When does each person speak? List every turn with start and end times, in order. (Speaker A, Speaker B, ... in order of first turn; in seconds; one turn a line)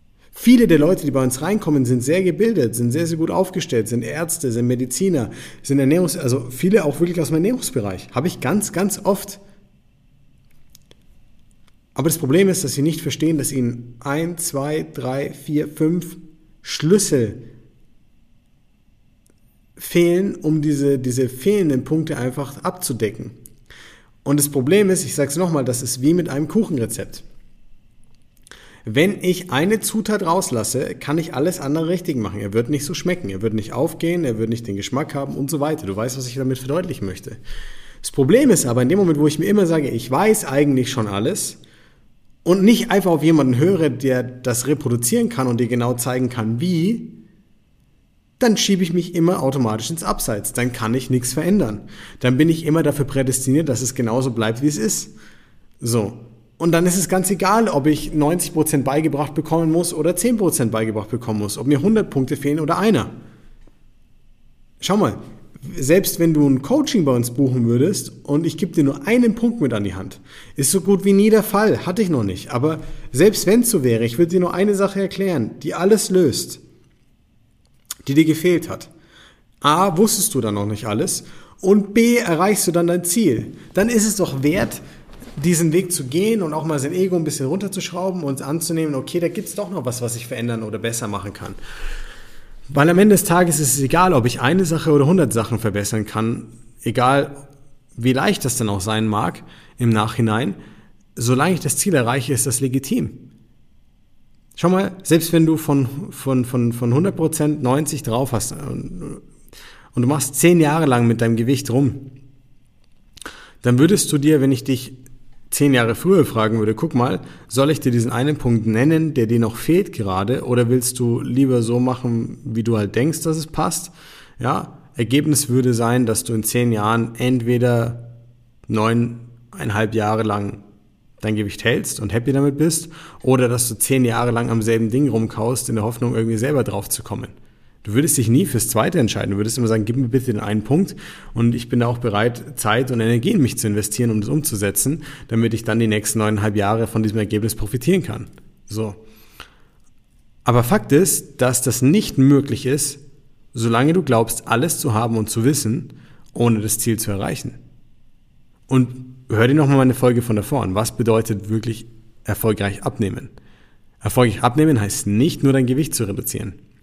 Speaker A: 0.3-9.4
Speaker A: 11.9-17.4
Speaker A: 19.8-23.4
Speaker A: 24.2-27.2
Speaker A: 28.8-37.4
Speaker A: 38.0-41.6
Speaker A: 42.4-47.2
Speaker A: 48.4-55.1
Speaker A: 55.8-63.1
Speaker A: 64.8-76.6
Speaker A: 78.0-78.9
Speaker A: 79.6-84.8
Speaker A: 85.4-91.6
Speaker A: 92.7-100.6
Speaker A: 101.2-103.3
Speaker A: 104.5-109.2
Speaker A: 109.9-112.1
Speaker A: 113.6-115.0
Speaker A: 115.5-128.1
Speaker A: 128.7-130.6
Speaker A: 131.2-149.0
Speaker A: 150.4-153.0
Speaker A: 153.5-157.6
Speaker A: 158.7-163.3
Speaker A: 164.0-166.6